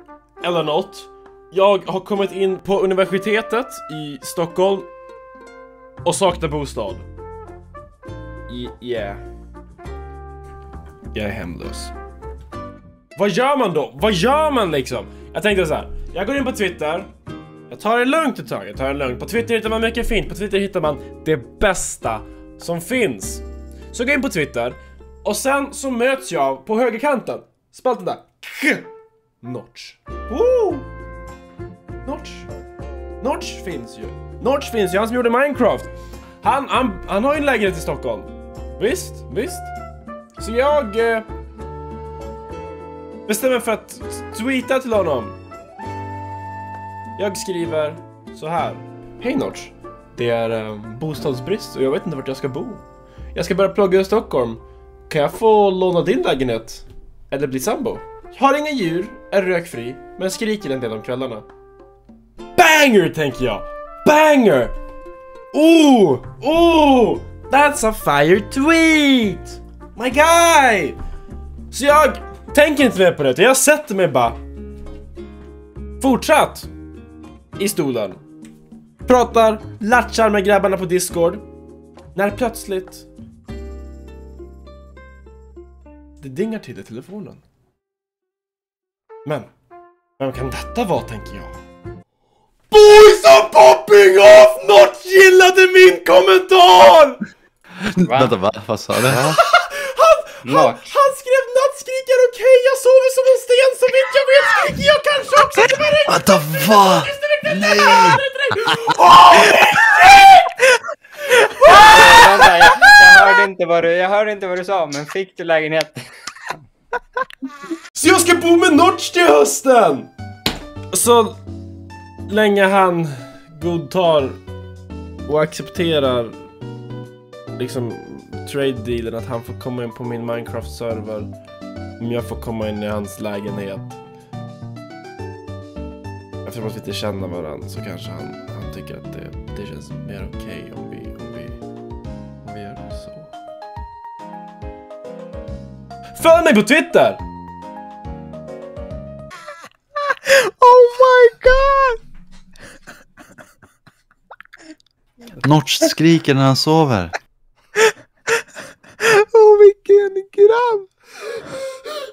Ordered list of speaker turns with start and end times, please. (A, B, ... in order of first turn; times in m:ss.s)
0:00.4-0:04.9 A
0:06.0-0:07.0 A
0:08.5-0:09.2 A
0:11.1-0:11.9 A
0:13.2-0:17.1 A
0:17.7-0:28.9 A
0:29.4-0:30.8 A
0:32.0-0:32.5 A
0:33.2-0:35.9 A
0:36.4-0:39.7 A
0:40.4-0:41.2 A
0:43.3-0:45.4 A
0:47.2-0:52.8 A
0:53.3-1:01.4 A
1:02.5-1:04.7 A
1:05.5-1:11.0 A
1:11.7-1:14.4 A
1:16.0-1:16.7 A
1:17.6-1:18.2 A
1:19.0-1:21.4 A
1:22.1-1:23.1 A
1:26.2-1:27.4 A
1:30.2-1:31.5 A
1:32.7-1:37.2 A
1:37.8-1:39.4 B
1:38.0-1:38.3 C
1:39.1-1:50.6 A
1:40.4-1:40.9 C
1:46.1-1:49.0 B
1:51.3-1:52.5 A
1:51.6-1:56.1 C
1:57.9-2:00.1 A
2:00.9-2:01.4 A
2:02.3-2:04.4 A
2:05.2-2:06.4 A
2:07.6-2:11.3 A
2:12.0-2:14.0 A
2:16.4-2:21.6 A
2:22.4-2:23.3 A
2:26.2-2:27.2 A
2:30.2-2:32.0 D
2:35.4-2:37.1 B
2:39.0-2:40.9 D